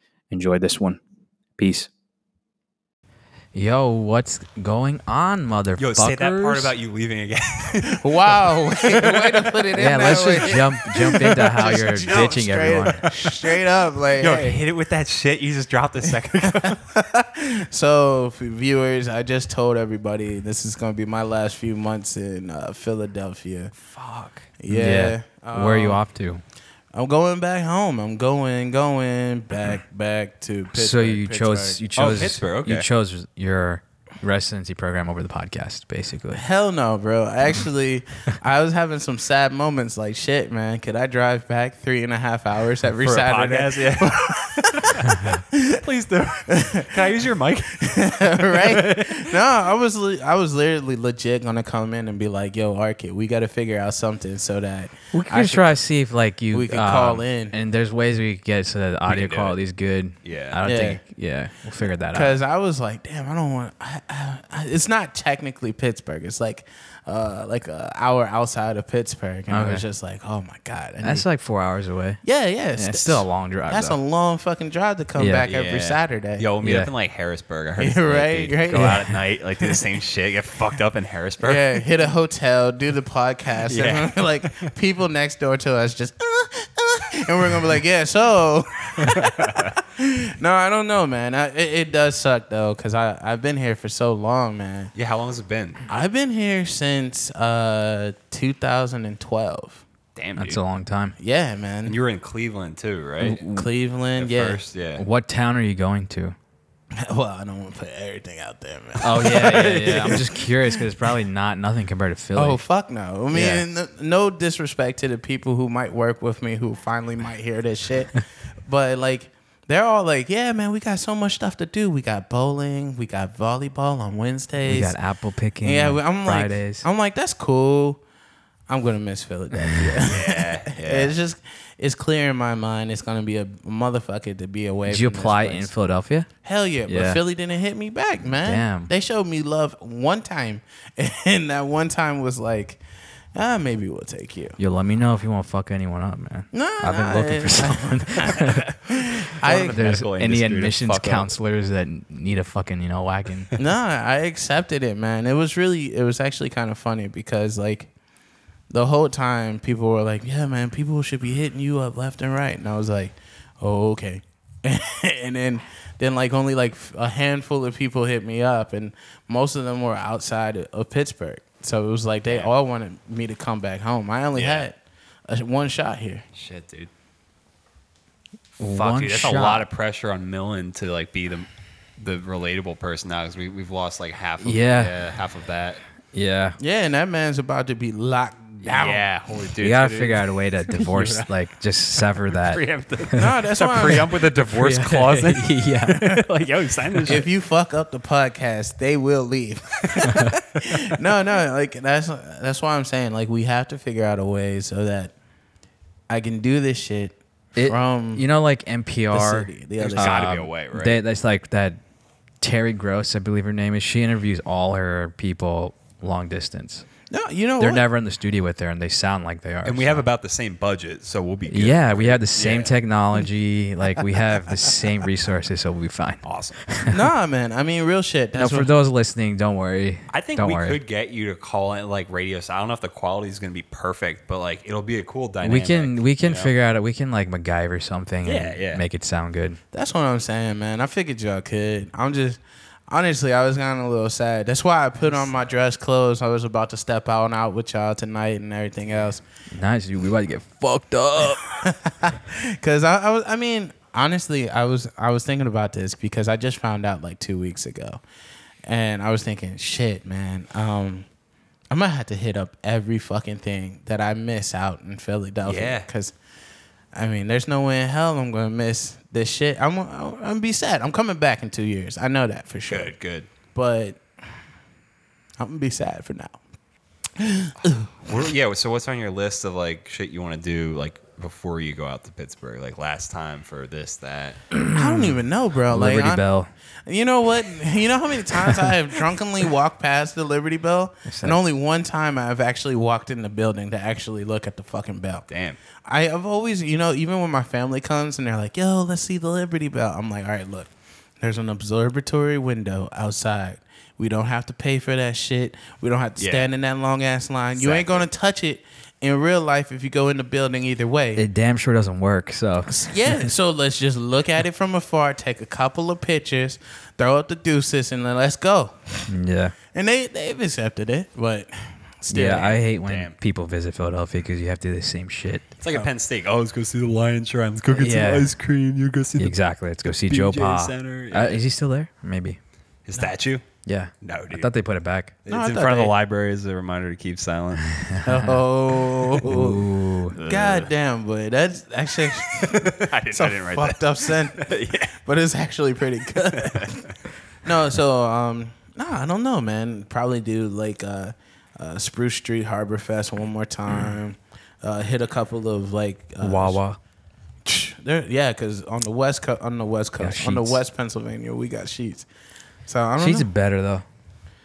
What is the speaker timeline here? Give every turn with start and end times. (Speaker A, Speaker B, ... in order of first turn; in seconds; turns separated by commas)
Speaker A: 0.3-1.0, Speaker A: 1.6-1.9, Speaker A: 3.5-6.7, Speaker B: 5.8-10.0, Speaker C: 7.9-14.6, Speaker A: 9.8-13.0, Speaker B: 13.1-13.4, Speaker B: 14.2-16.8, Speaker C: 16.1-23.7, Speaker B: 23.9-24.5, Speaker C: 24.6-26.0, Speaker A: 24.7-26.4, Speaker C: 26.9-31.8, Speaker A: 30.7-36.4, Speaker B: 32.0-32.9, Speaker C: 36.3-45.8, Speaker B: 43.0-49.4, Speaker C: 46.5-55.8, Speaker A: 55.1-62.4, Speaker C: 56.5-57.5, Speaker B: 59.1-59.6, Speaker B: 60.2-60.6, Speaker C: 60.6-61.0, Speaker C: 61.9-71.2, Speaker A: 69.5-69.8, Speaker A: 71.0-72.2, Speaker C: 72.2-76.5, Speaker A: 72.8-74.0, Speaker A: 75.2-75.5, Speaker B: 75.5-81.8, Speaker A: 76.6-76.9, Speaker C: 77.8-79.8, Speaker A: 78.7-79.1, Speaker C: 81.4-94.9, Speaker B: 83.7-84.7, Speaker B: 89.0-89.8, Speaker B: 95.0-95.8, Speaker C: 95.9-99.8, Speaker B: 100.2-100.6, Speaker A: 100.4-101.2, Speaker C: 101.2-102.0, Speaker B: 101.9-103.4, Speaker A: 103.2-103.7, Speaker C: 103.4-104.6, Speaker B: 104.2-105.0, Speaker A: 105.0-106.4, Speaker C: 107.0-110.8, Speaker A: 109.0-112.6, Speaker B: 109.2-110.3, Speaker C: 112.4-125.0, Speaker A: 113.3-113.6, Speaker A: 124.7-126.8, Speaker C: 125.6-128.0, Speaker C: 128.7-135.7, Speaker A: 129.5-130.0, Speaker B: 130.0-131.1, Speaker A: 134.9-136.3, Speaker C: 136.4-142.8, Speaker A: 136.9-137.2, Speaker A: 138.4-138.9, Speaker C: 143.3-144.6, Speaker A: 144.6-148.7, Speaker C: 146.5-149.8, Speaker B: 149.4-151.3, Speaker A: 149.7-153.5, Speaker C: 153.6-157.9, Speaker C: 158.7-174.8, Speaker B: 174.3-174.7, Speaker C: 175.3-176.2, Speaker B: 176.3-176.9, Speaker A: 178.6-179.7, Speaker B: 178.7-181.5, Speaker B: 182.0-185.8, Speaker A: 184.4-185.0, Speaker A: 186.1-186.6, Speaker C: 186.6-189.1, Speaker B: 188.7-191.3, Speaker A: 189.6-193.2, Speaker B: 192.3-197.3, Speaker C: 193.2-194.1, Speaker A: 194.4-196.2, Speaker C: 197.0-205.1, Speaker B: 199.9-200.9, Speaker A: 200.0-200.3, Speaker C: 206.1-208.2, Speaker A: 207.6-211.8, Speaker C: 209.1-210.3, Speaker B: 209.8-211.0, Speaker A: 212.4-216.9, Speaker C: 217.1-217.8, Speaker A: 217.6-220.1, Speaker B: 219.7-222.7, Speaker A: 221.5-227.0, Speaker B: 226.2-226.6, Speaker C: 226.9-228.7, Speaker A: 228.3-230.8, Speaker B: 230.1-236.5, Speaker A: 235.4-239.6, Speaker B: 238.2-238.8, Speaker C: 239.7-249.2, Speaker A: 249.5-251.4, Speaker C: 251.3-258.0, Speaker C: 258.7-261.1, Speaker C: 261.7-266.1, Speaker B: 265.4-265.9, Speaker C: 266.9-272.9, Speaker B: 272.7-273.3, Speaker C: 273.5-274.0, Speaker C: 275.4-276.4, Speaker C: 277.2-277.9, Speaker B: 278.1-284.4, Speaker A: 284.6-286.5, Speaker C: 284.7-286.2, Speaker C: 286.9-295.3, Speaker A: 291.1-291.4, Speaker B: 295.3-295.6, Speaker C: 295.9-311.2, Speaker B: 306.2-306.5, Speaker B: 307.6-308.1, Speaker A: 311.2-313.2, Speaker C: 312.7-319.1, Speaker A: 319.1-319.6, Speaker C: 319.7-322.6, Speaker A: 322.1-325.6, Speaker B: 322.1-323.1, Speaker B: 325.6-329.4, Speaker A: 327.7-328.3, Speaker A: 329.2-332.4, Speaker B: 330.1-331.4, Speaker B: 332.9-333.4, Speaker A: 333.6-335.1, Speaker B: 334.0-334.5, Speaker B: 335.2-337.8, Speaker C: 335.3-335.9, Speaker A: 337.6-338.4, Speaker C: 338.1-346.9, Speaker A: 339.2-340.2, Speaker B: 340.1-340.7, Speaker B: 342.3-344.9, Speaker B: 346.3-346.8, Speaker C: 347.4-356.6, Speaker A: 356.2-356.8, Speaker C: 357.4-362.1, Speaker A: 360.0-360.6, Speaker C: 362.6-363.3, Speaker A: 363.0-363.9